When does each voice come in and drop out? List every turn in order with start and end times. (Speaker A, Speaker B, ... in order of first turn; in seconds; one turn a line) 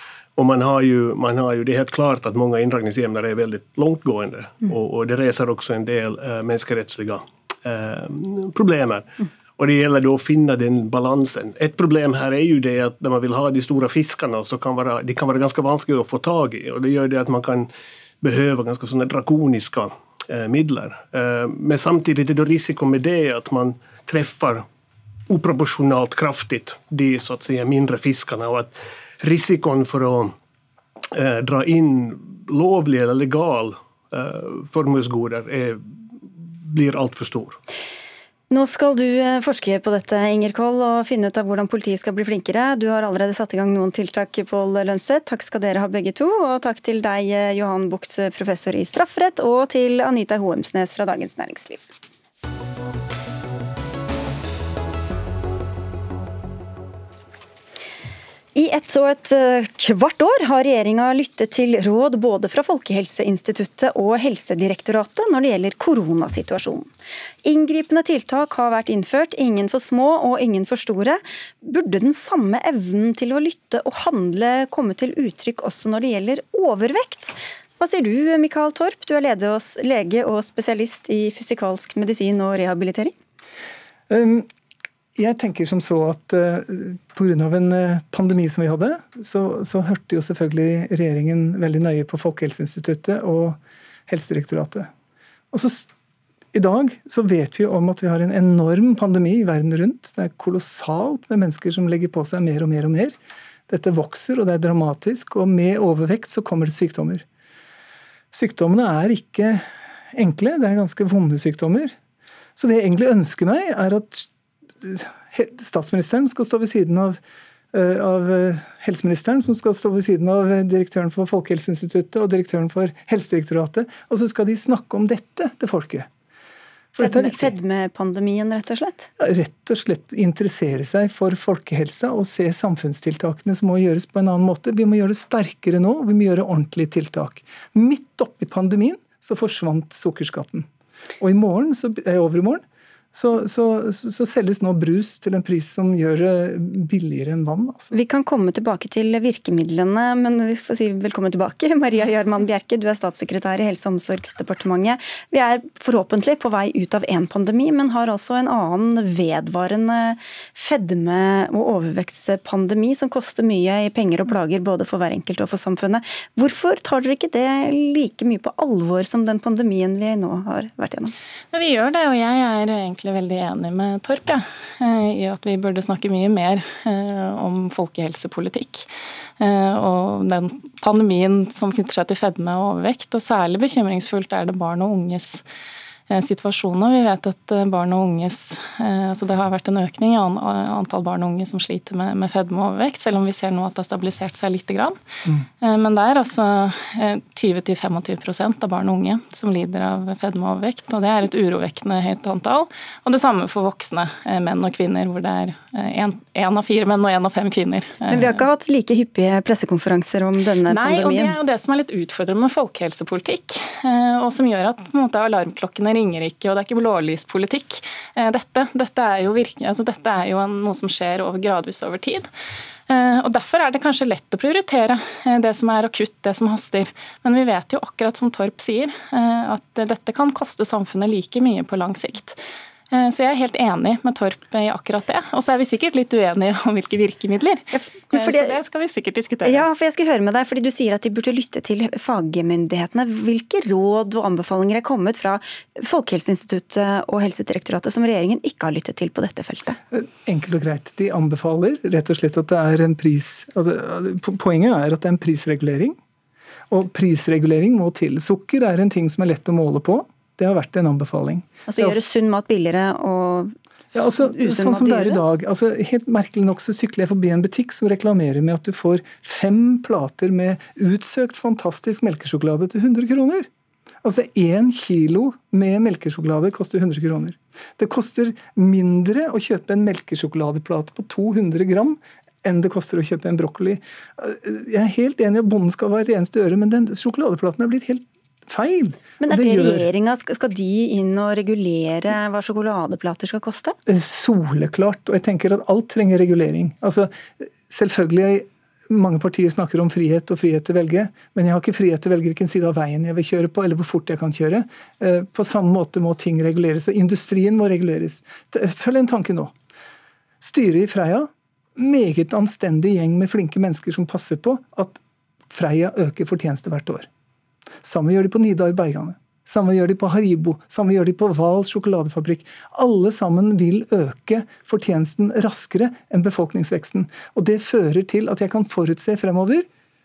Speaker A: 0.3-17.7
Speaker A: 18.2-24.6
Speaker A: 25.3-30.3
Speaker A: 31.1-37.6
Speaker B: 38.5-51.8
Speaker B: 58.5-66.9
Speaker B: 67.4-83.1
Speaker C: 84.1-84.5
Speaker C: 85.2-94.9
Speaker C: 95.5-95.9
Speaker C: 96.5-103.2
Speaker C: 103.7-107.2
Speaker C: 108.3-111.9
Speaker C: 112.5-114.3
Speaker C: 114.8-117.2
Speaker C: 117.7-126.1
Speaker C: 126.9-127.5
Speaker B: 127.0-129.1
Speaker C: 129.2-140.7
Speaker C: 141.2-147.9
Speaker B: 147.9-171.1
Speaker D: 171.5-178.9
Speaker D: 179.4-185.4
Speaker D: 186.1-195.0
Speaker D: 195.6-208.4
Speaker B: 208.1-211.3
Speaker D: 210.7-222.3
Speaker D: 222.9-232.4
Speaker D: 232.9-239.6
Speaker B: 237.8-238.6
Speaker B: 239.4-249.8
Speaker C: 249.9-256.0
Speaker C: 256.7-262.0
Speaker B: 261.7-263.5
Speaker C: 263.9-273.5
Speaker B: 264.2-265.2
Speaker C: 274.0-289.9
Speaker B: 289.2-293.8
Speaker C: 293.9-309.5
Speaker C: 310.4-315.0
Speaker C: 315.5-317.1
Speaker C: 317.8-329.6